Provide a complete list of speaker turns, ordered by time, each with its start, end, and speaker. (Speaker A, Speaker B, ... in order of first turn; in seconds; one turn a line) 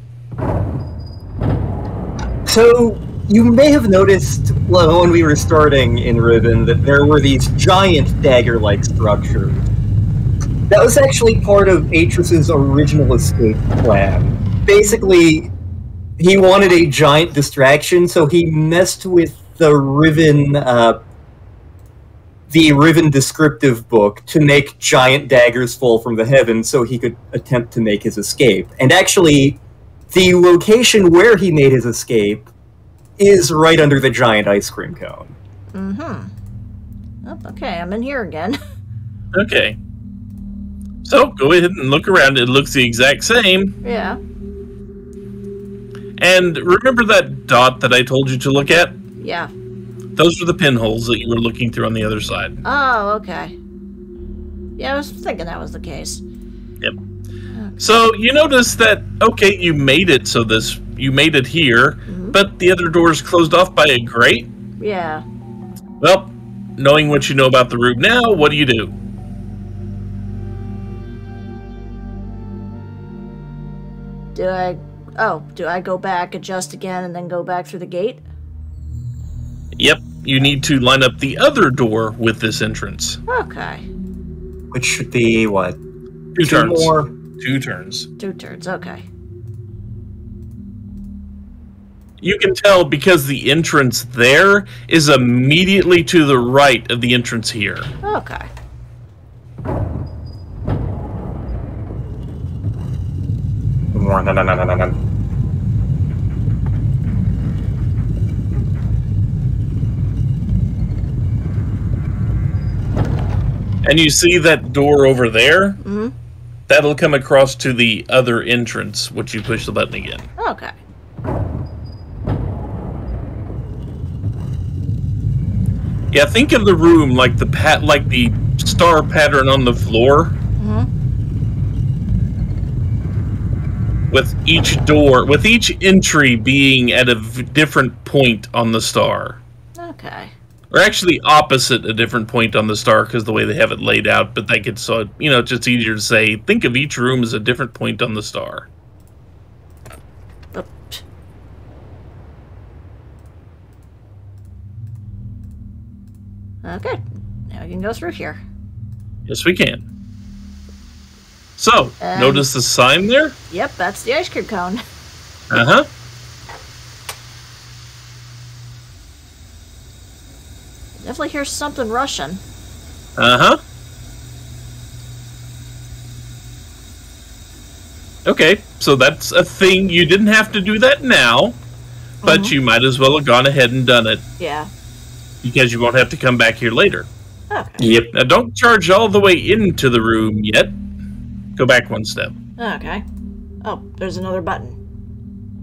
Speaker A: 2.5-9.6
Speaker A: 10.7-15.5
Speaker A: 16.2-21.0
Speaker A: 22.5-29.6
Speaker A: 30.1-32.5
Speaker A: 33.2-35.4
Speaker B: 35.7-36.3
Speaker B: 37.2-38.6
Speaker C: 39.3-39.8
Speaker C: 41.0-43.7
Speaker B: 43.8-44.2
Speaker C: 46.2-49.0
Speaker B: 49.2-49.5
Speaker C: 50.1-52.6
Speaker B: 52.6-53.5
Speaker B: 54.8-56.2
Speaker C: 57.8-64.5
Speaker B: 62.1-62.4
Speaker B: 64.8-65.2
Speaker C: 66.0-68.9
Speaker B: 74.3-78.2
Speaker C: 79.8-83.2
Speaker B: 83.3-83.8
Speaker A: 84.7-85.8
Speaker C: 86.3-88.1
Speaker A: 86.4-87.1
Speaker B: 88.2-89.0
Speaker C: 92.2-97.9
Speaker B: 98.0-98.5
Speaker A: 103.9-105.0
Speaker C: 113.8-115.8
Speaker B: 115.8-116.1
Speaker C: 116.7-120.3
Speaker B: 120.4-120.7
Speaker C: 126.1-130.3
Speaker B: 130.6-130.9
Speaker C: 134.1-139.4
Speaker B: 139.8-140.3
Speaker C: 140.7-148.7
Speaker B: 150.5-151.0
Speaker B: 156.6-157.0
Speaker B: 157.5-158.4
Speaker C: 159.3-159.8
Speaker C: 161.6-163.4
Speaker B: 162.0-162.4
Speaker B: 163.5-164.8
Speaker C: 165.5-165.9
Speaker B: 171.0-172.4
Speaker C: 173.2-173.6
Speaker C: 178.2-181.6
Speaker B: 182.2-182.5
Speaker C: 182.2-184.2
Speaker B: 184.4-184.7
Speaker C: 185.4-187.1
Speaker B: 187.5-187.8
Speaker A: 187.8-188.1
Speaker C: 188.1-190.8
Speaker C: 191.6-192.3
Speaker B: 192.6-193.0
Speaker B: 193.6-194.8